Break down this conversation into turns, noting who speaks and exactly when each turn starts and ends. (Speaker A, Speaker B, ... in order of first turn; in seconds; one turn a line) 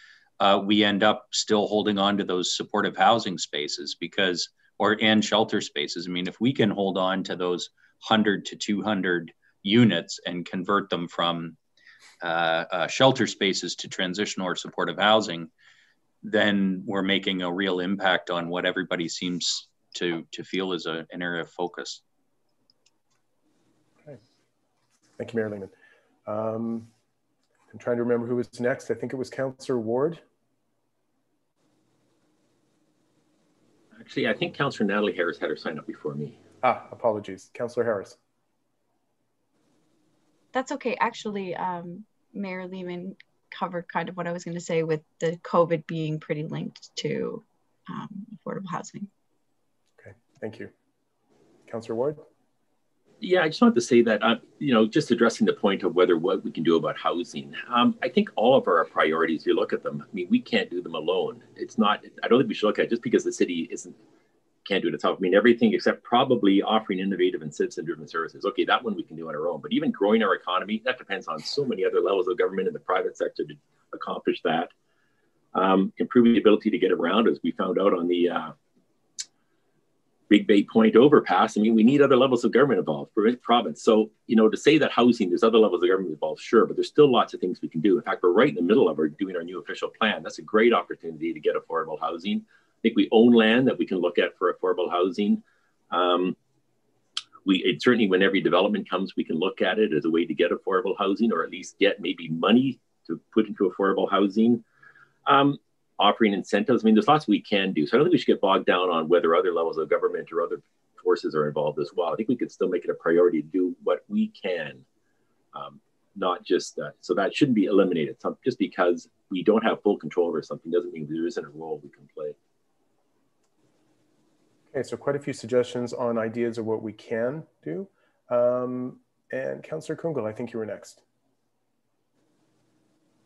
Speaker A: 0.4-11.6
Speaker A: 12.2-15.5
Speaker A: 16.2-22.0
Speaker B: 25.2-25.7
Speaker B: 26.3-26.9
Speaker B: 27.7-30.2
Speaker C: 34.0-36.4
Speaker B: 36.6-38.2
Speaker D: 40.5-49.1
Speaker B: 50.0-50.7
Speaker B: 51.7-52.2
Speaker C: 53.2-64.0
Speaker C: 64.6-74.7
Speaker C: 75.5-78.5
Speaker C: 80.3-96.4
Speaker C: 97.5-104.6
Speaker C: 105.2-114.8
Speaker C: 115.5-122.4
Speaker B: 124.7-131.0